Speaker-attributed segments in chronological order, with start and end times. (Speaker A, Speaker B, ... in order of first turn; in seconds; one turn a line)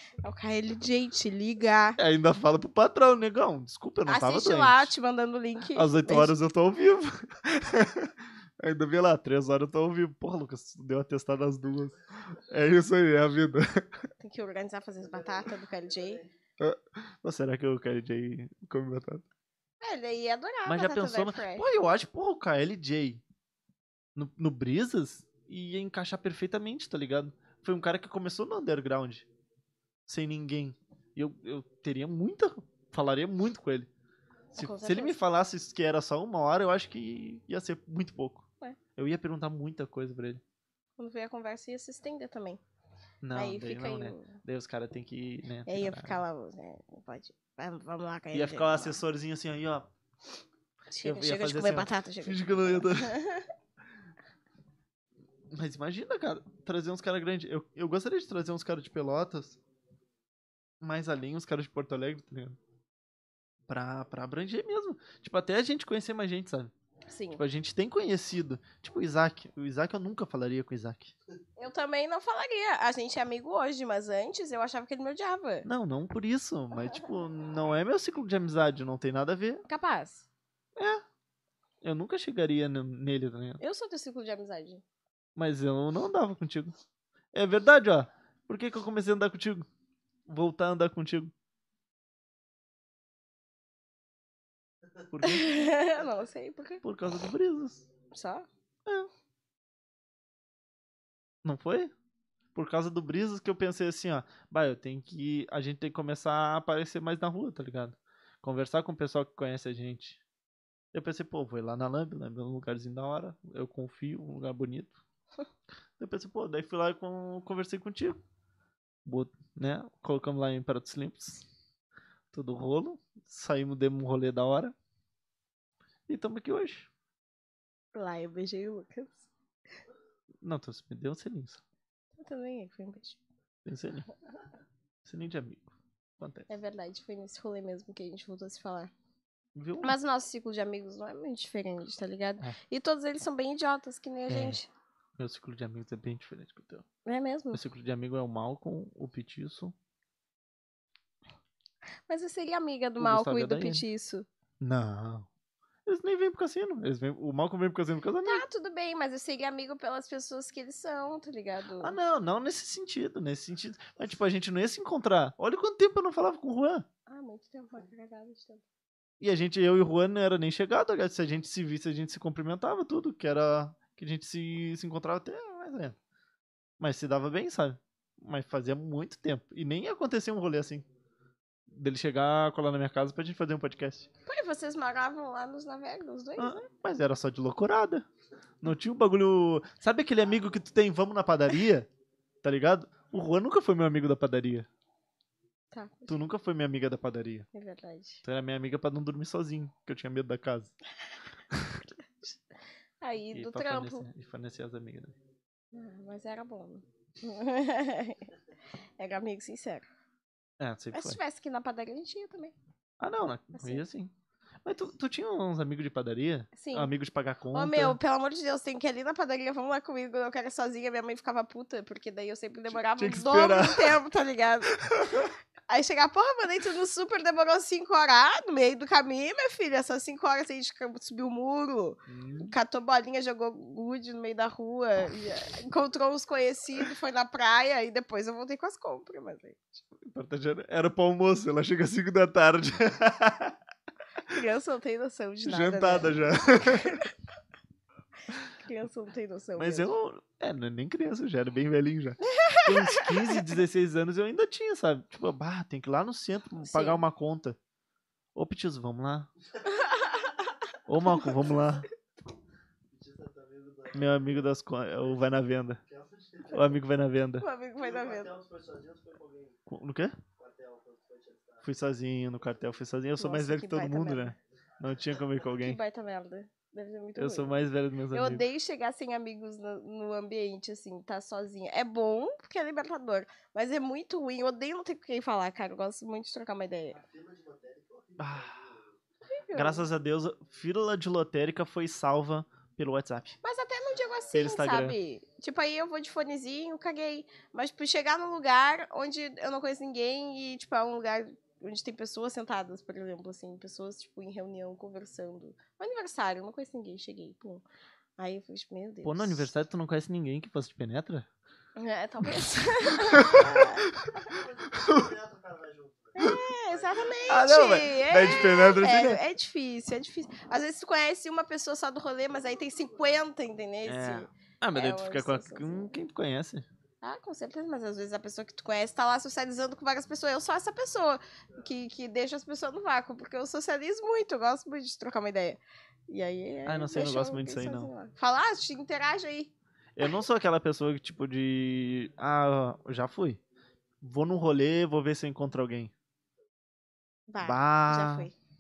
Speaker A: 0.2-2.0
Speaker B: 2.0-4.9
Speaker A: 4.1-6.3
Speaker B: 5.7-14.1
Speaker A: 14.2-16.2
Speaker B: 16.6-19.2
Speaker A: 19.8-21.7
Speaker B: 20.7-23.2
Speaker B: 24.2-29.3
Speaker B: 30.1-33.9
Speaker B: 34.5-40.4
Speaker A: 34.5-35.2
Speaker A: 41.0-42.6
Speaker B: 43.2-46.2
Speaker A: 43.3-44.3
Speaker A: 45.7-49.0
Speaker B: 48.3-49.9
Speaker A: 50.9-53.5
Speaker B: 51.0-53.1
Speaker B: 55.5-59.6
Speaker B: 60.8-62.6
Speaker B: 63.7-66.7
Speaker A: 67.1-67.4
Speaker B: 67.3-71.1
Speaker A: 71.6-75.7
Speaker B: 75.7-79.7
Speaker A: 76.8-77.1
Speaker A: 79.7-80.3
Speaker B: 80.8-81.0
Speaker B: 81.8-83.6
Speaker A: 83.6-84.8
Speaker B: 85.4-86.7
Speaker B: 87.3-89.7
Speaker B: 90.3-91.3
Speaker B: 95.1-95.5
Speaker A: 95.2-96.8
Speaker B: 96.8-97.9
Speaker A: 98.1-98.5
Speaker B: 101.5-101.9
Speaker B: 102.5-110.2
Speaker B: 110.9-115.0
Speaker B: 116.0-118.2
Speaker B: 119.1-121.5
Speaker B: 122.3-124.7
Speaker B: 126.1-126.9
Speaker A: 127.9-129.3
Speaker B: 130.4-131.6
Speaker A: 132.2-133.2
Speaker B: 133.7-134.1
Speaker B: 135.1-136.5
Speaker A: 136.5-138.9
Speaker B: 139.6-139.9
Speaker A: 139.8-144.7
Speaker B: 144.3-144.6
Speaker B: 145.2-146.8
Speaker A: 147.1-147.6
Speaker B: 147.5-149.8
Speaker A: 152.1-154.3
Speaker B: 153.0-153.8
Speaker B: 154.6-155.3
Speaker B: 155.9-158.4
Speaker A: 158.2-162.0
Speaker B: 161.8-166.9
Speaker A: 167.1-168.6
Speaker B: 169.2-176.0
Speaker B: 176.8-180.9
Speaker B: 181.7-184.1
Speaker A: 184.3-186.7
Speaker B: 186.4-188.1
Speaker B: 188.6-191.9
Speaker B: 192.4-194.7
Speaker A: 195.7-196.2
Speaker B: 196.1-197.5
Speaker A: 197.5-198.2
Speaker B: 198.2-200.7
Speaker B: 201.5-201.8
Speaker A: 202.0-202.4
Speaker A: 203.0-204.1
Speaker B: 203.3-205.2
Speaker A: 205.7-208.3
Speaker A: 209.0-209.9
Speaker B: 210.6-211.2
Speaker A: 210.9-212.6
Speaker B: 213.0-214.1
Speaker A: 213.5-213.8
Speaker B: 214.6-218.0
Speaker A: 216.5-216.9
Speaker A: 217.5-239.8
Speaker B: 222.7-224.0
Speaker B: 224.8-225.3
Speaker B: 232.1-232.6
Speaker B: 240.0-243.6
Speaker A: 244.3-247.1
Speaker B: 245.5-247.1
Speaker A: 248.6-249.9
Speaker B: 249.6-257.6
Speaker A: 252.3-253.4
Speaker A: 256.6-257.0
Speaker B: 258.4-259.3
Speaker A: 259.8-260.4
Speaker B: 260.9-261.9
Speaker A: 261.0-261.5
Speaker C: 262.9-264.5
Speaker B: 263.9-265.8
Speaker C: 265.0-265.3
Speaker C: 265.8-266.8
Speaker B: 266.5-267.5
Speaker A: 267.4-268.3
Speaker C: 267.8-269.6
Speaker B: 269.7-270.2
Speaker C: 270.4-271.6
Speaker B: 271.6-275.8
Speaker A: 273.2-274.4
Speaker A: 275.6-287.0
Speaker B: 277.2-278.4
Speaker C: 286.9-288.9
Speaker B: 288.2-288.7
Speaker A: 289.3-289.9
Speaker B: 289.5-293.4
Speaker A: 293.4-307.6
Speaker B: 294.3-294.9
Speaker A: 308.2-309.5
Speaker B: 309.0-311.3
Speaker A: 311.8-314.3
Speaker B: 312.9-315.0
Speaker C: 314.3-317.1
Speaker A: 316.2-326.0
Speaker B: 317.3-319.2
Speaker B: 323.9-326.7
Speaker A: 327.0-339.5
Speaker B: 336.7-337.9
Speaker B: 340.0-343.4
Speaker B: 344.0-345.9
Speaker A: 347.3-348.3
Speaker B: 347.4-348.3